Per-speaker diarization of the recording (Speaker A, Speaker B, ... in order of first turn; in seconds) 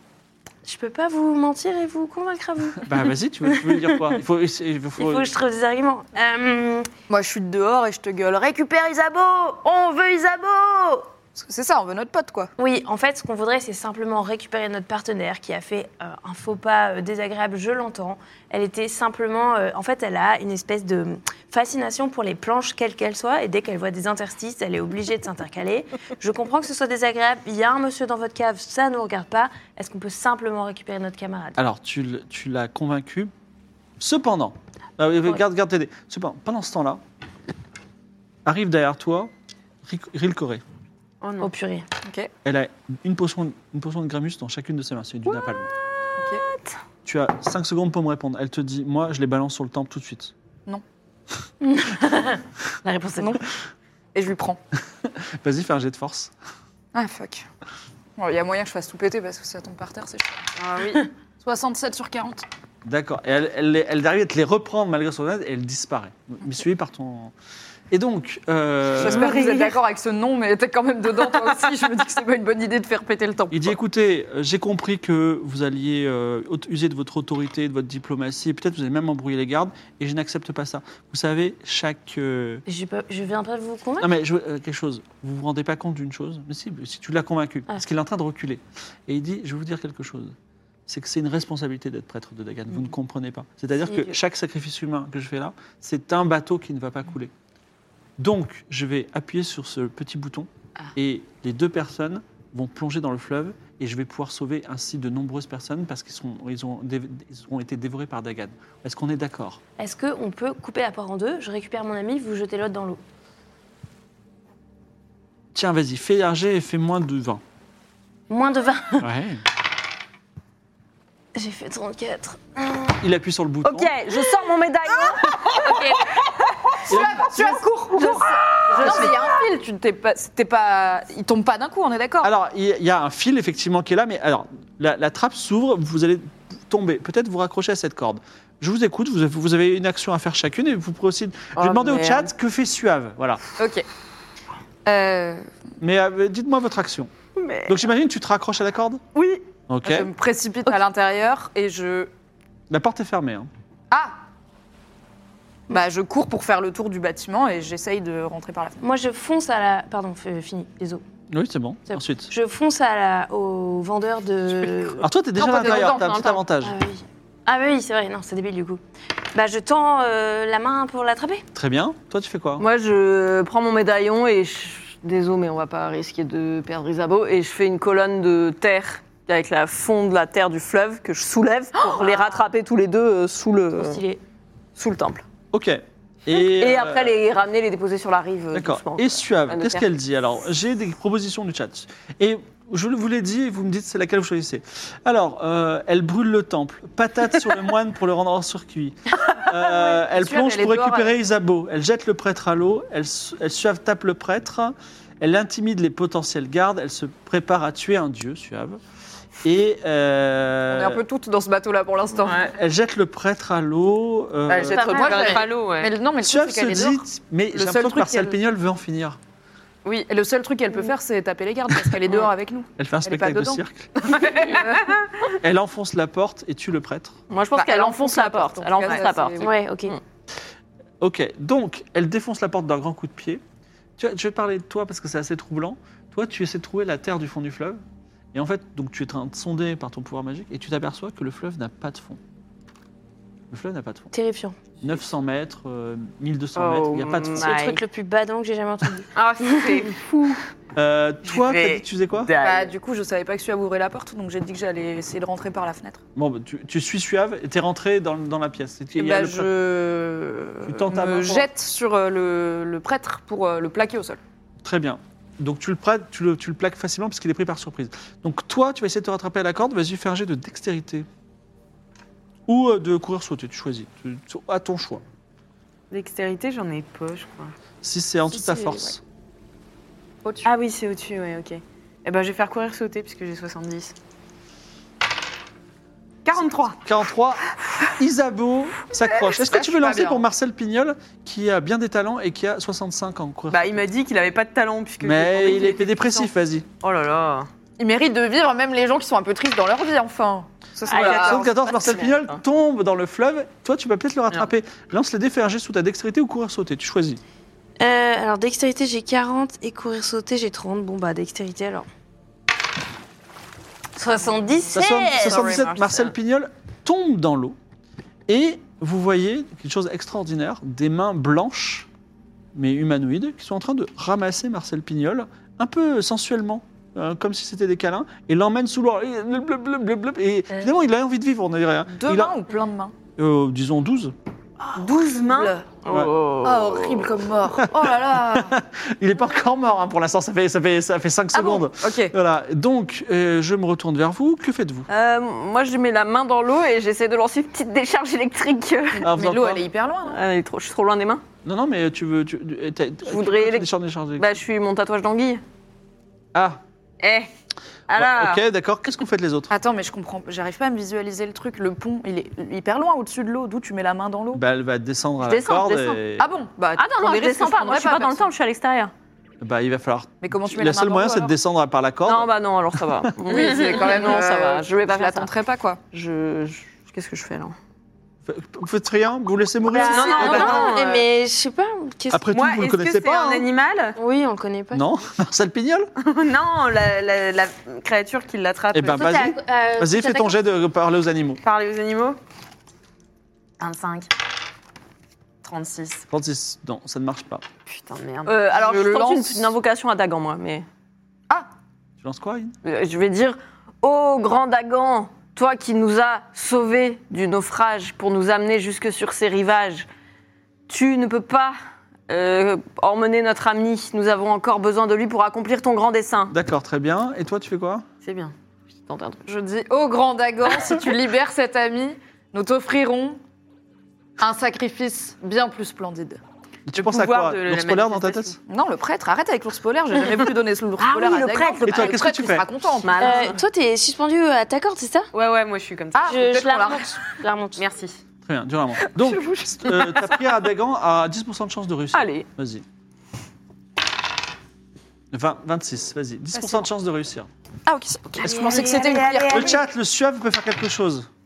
Speaker A: 0.6-4.0, 5.0-6.9, 8.5-11.1, 12.6-31.6, 41.4-41.9, 51.6-53.4, 82.7-84.1, 93.9-94.1, 109.8-113.0, 118.3-119.1, 121.3-123.0, 125.6-126.1, 158.8-161.0, 161.9-165.1, 166.6-168.8, 169.3-171.4, 183.8-184.2, 214.7-215.4, 229.4-230.0, 244.1-244.6, 247.3-249.8, 307.8-311.9, 313.9-315.7, 379.6-382.3, 383.9-384.9, 388.9-390.4, 433.0-435.1, 436.1-437.6, 448.2-449.3
Speaker B: 2.8-5.3, 31.6-33.3, 34.0-37.0, 38.4-39.3, 39.8-40.6, 42.4-45.7, 47.0-50.3, 55.0-56.3, 62.8-67.3, 67.9-69.4, 73.5-82.6, 84.0-90.3, 90.9-97.3, 98.2-109.6, 115.5-117.4, 119.0-119.4, 123.0-123.9, 126.9-127.5, 128.8-129.1, 132.2-143.4, 145.8-147.1, 147.7-149.0, 149.7-150.1, 152.7-153.5, 161.3-162.3, 165.0-166.8, 171.5-172.6, 185.5-187.2, 188.5-208.8, 209.4-211.0, 212.4-215.1, 216.2-219.2, 222.8-223.9, 225.3-227.2, 231.0-233.4, 234.0-237.8, 238.3-242.2, 243.5-244.1, 244.8-247.6, 250.8-252.3, 256.1-259.5, 260.6-261.5, 264.6-271.1, 272.5-275.0, 277.8-279.0, 286.8-293.7, 295.0-296.7, 301.0-307.2, 314.7-317.6, 318.3-321.9, 322.5-332.3, 333.1-334.1, 337.5-344.9, 349.0-349.6, 351.4-354.3, 356.3-356.6, 357.9-359.5, 364.3-366.3, 369.4-373.1, 378.2-380.5, 382.1-383.5, 384.7-385.9, 388.7-391.4, 396.1-397.4, 402.0-402.5, 416.3-417.8, 426.7-428.3, 431.6-432.5, 438.2-442.6, 445.1-447.3, 448.2-448.7, 449.3-451.1
Speaker C: 7.1-8.6, 11.3-12.5, 42.0-42.3, 46.2-46.4, 53.2-53.4, 54.1-54.6, 56.9-57.5, 58.2-60.5, 61.4-62.4, 69.0-73.8, 126.8-132.3, 143.6-143.8, 144.8-145.5, 149.8-152.1, 155.7-158.8, 165.4-166.4, 199.4-201.1, 210.7-212.6, 214.7-218.3, 219.8-224.9, 227.5-229.5, 252.4-256.0, 259.0-264.2, 278.3-278.9, 280.2-280.5, 289.1-290.2, 297.8-301.4, 331.9-332.9, 336.4-338.6, 341.3-342.1, 348.9-350.2, 359.5-364.4, 366.2-368.3, 370.2-371.3, 373.3-375.8, 379.7-380.8, 395.4-396.0, 398.5-399.5, 419.2-423.2, 424.2-426.2, 428.4-433.2, 435.9-437.0, 446.3-446.6, 447.6-449.6
Speaker D: 41.2-41.5, 60.6-61.0, 147.4-147.7, 149.1-149.4, 214.5-215.9, 224.1-224.6, 228.8-229.1, 247.0-247.8, 249.1-250.4, 251.2-252.7, 275.9-277.5, 280.4-283.9, 286.2-286.8, 293.5-296.3, 297.1-297.4, 335.0-335.5, 357.0-357.3, 379.9-381.0, 382.3-384.0, 386.0-389.1, 391.4-392.2, 393.6-394.1, 395.4-396.0, 397.7-398.4, 426.7-428.4, 435.1-436.3, 437.6-438.0, 439.6-440.0
Speaker E: 123.6-125.8, 127.3-129.2, 141.6-142.2, 165.5-166.4, 172.6-184.0, 184.8-185.2, 186.3-189.9, 227.3-229.5, 246.6-247.4, 296.8-297.4, 300.9-302.4, 334.8-337.3, 344.9-349.2, 350.0-351.2, 353.1-355.4, 357.9-358.4, 365.2-366.0, 366.7-368.9, 372.0-375.3, 375.9-377.5, 379.9-380.8, 398.2-400.6, 402.6-409.9, 410.7-411.6, 412.1-416.3, 418.0-418.3, 418.9-419.2, 430.8-432.0, 432.8-433.4, 441.9-442.2, 448.3-449.5